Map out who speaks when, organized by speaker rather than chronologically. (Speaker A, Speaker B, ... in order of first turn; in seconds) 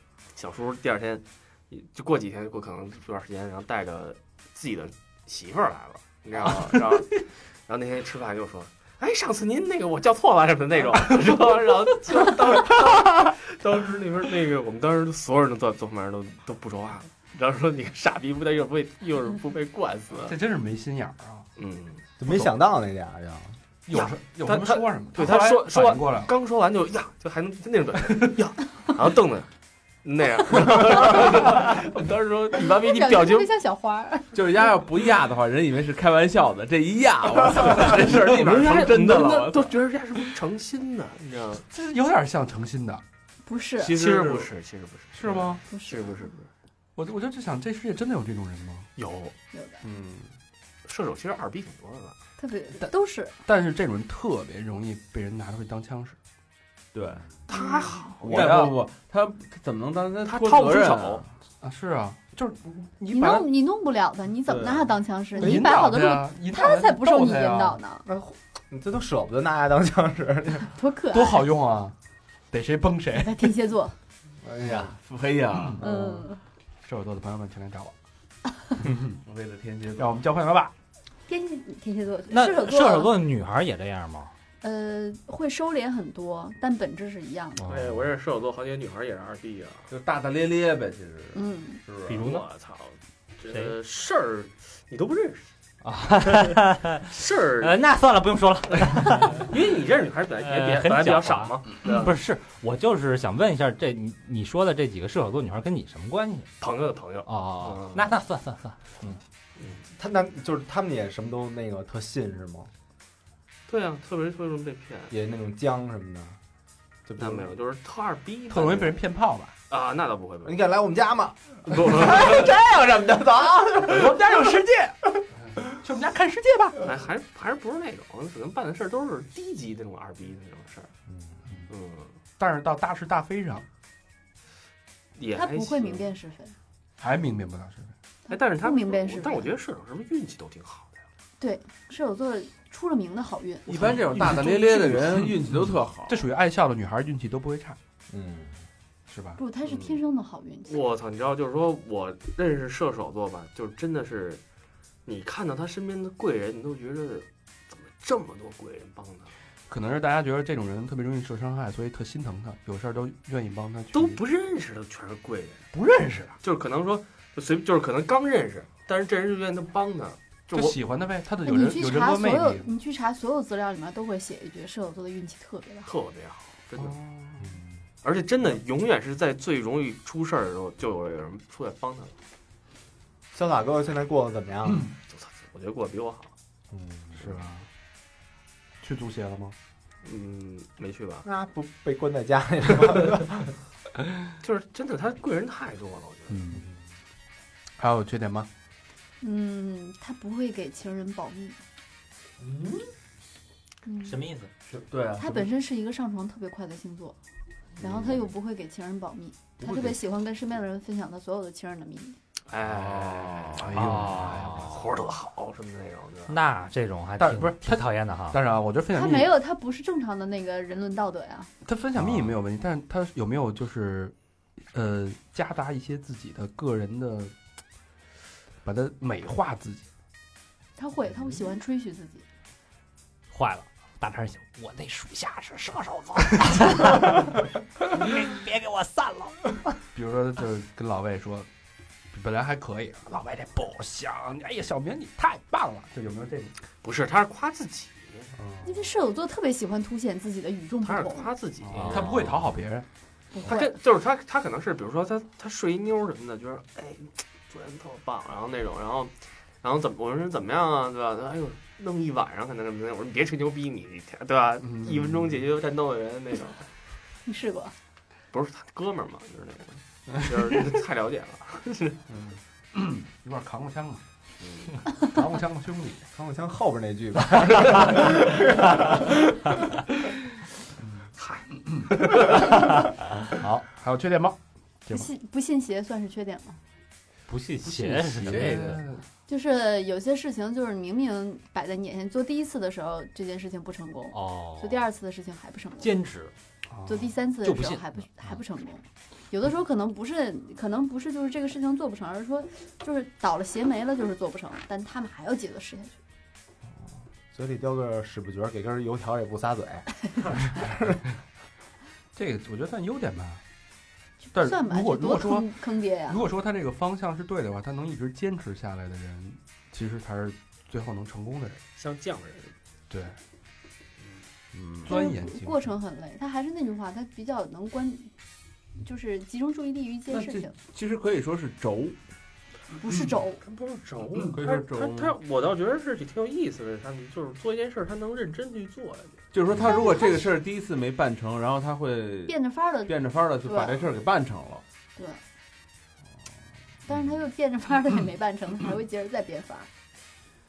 Speaker A: 0.3-20.4, 21.6-22.5, 23.9-29.5, 30.0-33.5, 37.6-41.6, 44.0-46.5, 49.0-49.4, 50.9-52.2, 57.5-58.6, 60.2-61.2, 87.7-89.9, 92.1-95.5, 97.1-97.8, 98.9-102.2, 106.6-108.0, 113.7-115.1, 117.2-119.0, 119.7-120.7, 121.7-122.5, 126.8-130.9, 131.7-132.2, 135.2-136.1, 138.3-141.0, 149.7-150.0, 150.7-154.4, 155.1-159.3, 163.9-165.7, 166.4-170.8, 175.8-177.0, 178.0-182.1, 185.1-186.3, 190.0-191.3, 194.4-196.4, 212.5-216.4, 246.8-248.3, 250.8-252.2, 253.5-266.7, 268.3-272.0, 274.4-274.7, 281.2-282.4, 321.8-322.5, 333.4-339.2
Speaker B: 20.3-21.5, 23.9-26.3, 41.7-43.0, 45.1-45.6, 47.0-48.9, 53.5-56.2, 58.2-58.8, 61.6-63.5, 65.4-67.8, 71.1-72.0, 72.5-73.5, 76.8-77.9, 80.0-80.7, 87.6-88.0, 118.5-119.5, 123.8-126.9, 132.4-133.7, 137.0-137.9, 143.8-147.8, 149.1-149.4, 159.7-164.2, 165.7-166.4, 170.5-172.7, 176.8-177.6, 187.2-187.7, 188.8-189.6, 196.3-196.7, 197.8-198.5, 213.6-214.7, 217.2-219.3, 221.6-224.1, 224.7-227.3, 228.6-229.8, 239.9-241.5, 242.1-246.5, 251.7-252.9, 264.6-265.4, 272.7-274.0, 275.0-276.0, 280.8-281.1, 283.4-285.1, 287.6-289.0, 296.7-297.1, 312.1-313.4, 314.3-321.6, 322.9-323.2, 324.8-325.7
Speaker C: 22.2-23.6, 68.1-70.7, 74.4-75.0, 75.8-76.3, 109.9-112.7, 115.1-116.4, 117.1-117.5, 120.5-124.3, 131.1-131.4, 148.1-148.6, 177.4-177.7, 183.3-184.9, 186.7-187.2, 191.2-193.6, 196.5-196.9, 222.0-222.3, 248.4-248.9, 276.1-279.0, 306.8-311.0
Speaker D: 32.7-34.4, 43.5-44.0, 45.7-46.3, 49.5-49.9, 52.4-53.4, 57.5-58.1, 63.1-68.1, 70.7-71.5, 73.1-74.0, 75.8-76.4, 81.3-83.1, 84.6-87.6, 91.3-91.8, 135.3-136.6, 138.3-139.5, 141.4-143.9, 149.4-150.8, 171.4-175.9, 199.2-201.6, 203.8-204.2, 205.2-207.2, 207.8-212.2, 218.9-221.5, 230.8-232.2, 248.6-251.3, 253.3-253.7, 267.3-267.8, 284.9-286.6, 289.3-295.9, 296.9-306.0, 314.2-316.2, 324.9-328.1, 328.8-330.5, 332.8-333.4, 339.6-340.3, 342.3-343.9, 345.0-345.2, 346.9-349.7
Speaker E: 34.3-39.7, 43.8-44.5, 49.8-50.4, 56.9-57.4, 58.2-61.3, 64.5-64.9, 74.7-75.8, 79.2-80.1, 89.9-92.3, 143.7-146.3, 202.4-202.9, 204.7-205.5, 207.8-208.2, 209.6-210.0, 212.7-213.6, 324.5-324.9, 330.1-332.0, 334.3-335.1, 339.3-344.6
Speaker F: 82.3-84.3, 92.1-92.5, 93.5-93.8, 95.8-99.5, 100.4-106.5, 107.2-109.1, 204.0-204.5, 213.8-214.8, 216.3-218.4, 233.3-239.7, 251.8-252.1, 287.3-288.8, 294.1-294.8, 295.8-296.3, 297.4-298.0